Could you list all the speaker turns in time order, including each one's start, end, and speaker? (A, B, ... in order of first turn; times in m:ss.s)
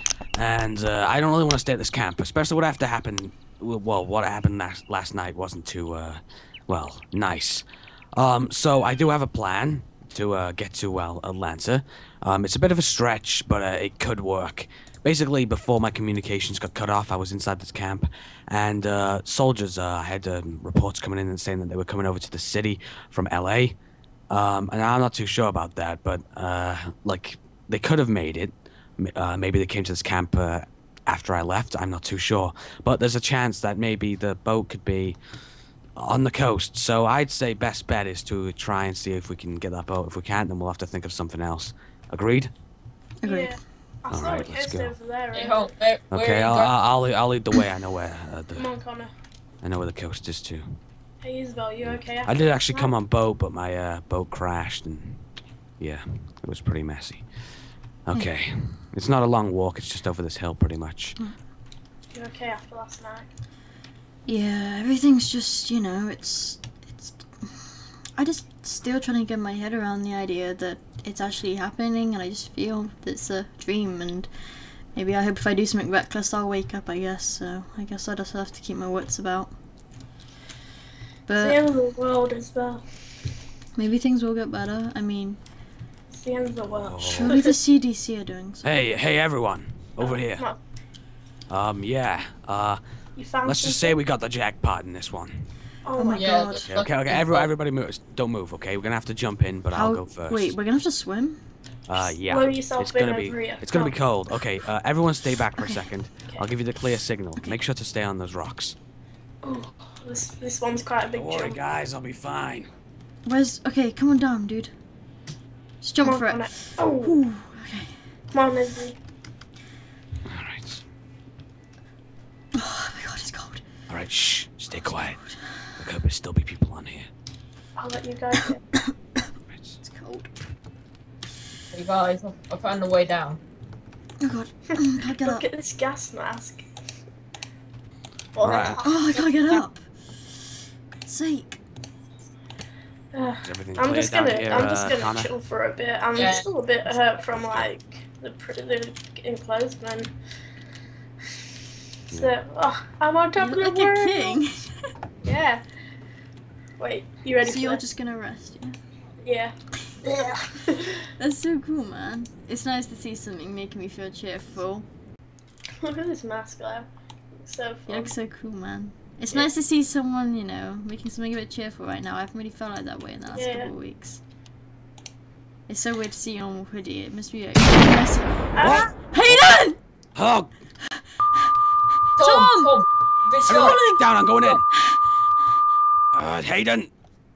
0:00.3-0:23.8 A
0:24.3-0:35.2 A
0:36.0-0:42.5 A
0:43.2-0:43.6 B
0:43.2-0:45.7 C
0:44.1-0:44.9 A
0:45.3-0:46.7 D
0:46.1-0:48.7 A
0:48.6-0:49.1 C
0:49.6-0:50.8 A
0:51.2-0:52.9 C
0:51.8-0:55.2 A
0:55.8-0:57.3 A
0:58.0-1:01.2 A
1:02.1-1:03.3 C
1:04.2-1:14.3 B
1:14.9-1:19.5 B
1:21.3-1:21.6 B
1:21.4-1:22.8 C
1:23.7-1:25.4 B
1:26.1-1:27.5 C
1:26.7-1:27.4 A
1:27.1-1:28.7 B
1:28.6-1:30.5 A
1:30.0-1:30.6 C
1:31.5-1:32.8 A
1:33.2-1:34.0 C
1:33.4-1:35.5 A
1:35.8-1:36.4 C
1:36.0-1:36.7 B
1:36.1-1:37.5 D
1:36.6-1:40.5 A
1:39.7-1:41.4 B
1:41.9-1:48.8 A
1:42.2-1:43.9 C
1:45.6-1:45.9 B
1:49.4-1:51.6 C
1:51.1-1:52.7 A
1:53.2-1:54.7 B
1:55.8-1:57.9 B
1:56.0-1:57.2 C
1:58.3-1:59.0 C
2:00.2-2:00.8 A
2:02.5-2:03.6 B
2:03.9-2:05.2 A
2:04.8-2:05.4 B
2:05.8-2:07.1 A
2:07.8-2:08.6 C
2:09.5-2:09.8 A
2:09.8-2:10.3 B
2:11.7-2:13.4 D
2:14.2-2:15.4 B
2:14.7-2:16.7 C
2:18.3-2:19.2 C
2:18.4-2:18.8 A
2:18.8-2:19.8 B
2:21.0-2:21.6 B
2:23.1-2:30.1 C
2:23.4-2:25.3 A
2:26.1-2:26.5 D
2:26.9-2:27.7 A
2:32.1-2:34.4 C
2:32.1-2:32.4 A
2:33.4-2:34.7 B
2:35.2-2:35.6 C
2:36.8-2:37.8 C
2:37.4-2:38.7 B
2:39.2-2:41.0 C
2:41.2-2:44.9 B
2:45.8-2:46.9 C
2:47.4-2:48.1 C
2:47.9-2:54.2 B
2:53.3-2:53.7 C
2:55.7-2:59.8 B
2:58.5-2:58.9 C
2:58.6-2:58.9 A
3:00.1-3:00.5 A
3:02.2-3:02.7 B
3:02.2-3:03.8 D
3:03.5-3:04.6 C
3:03.5-3:04.6 A
3:06.1-3:06.9 A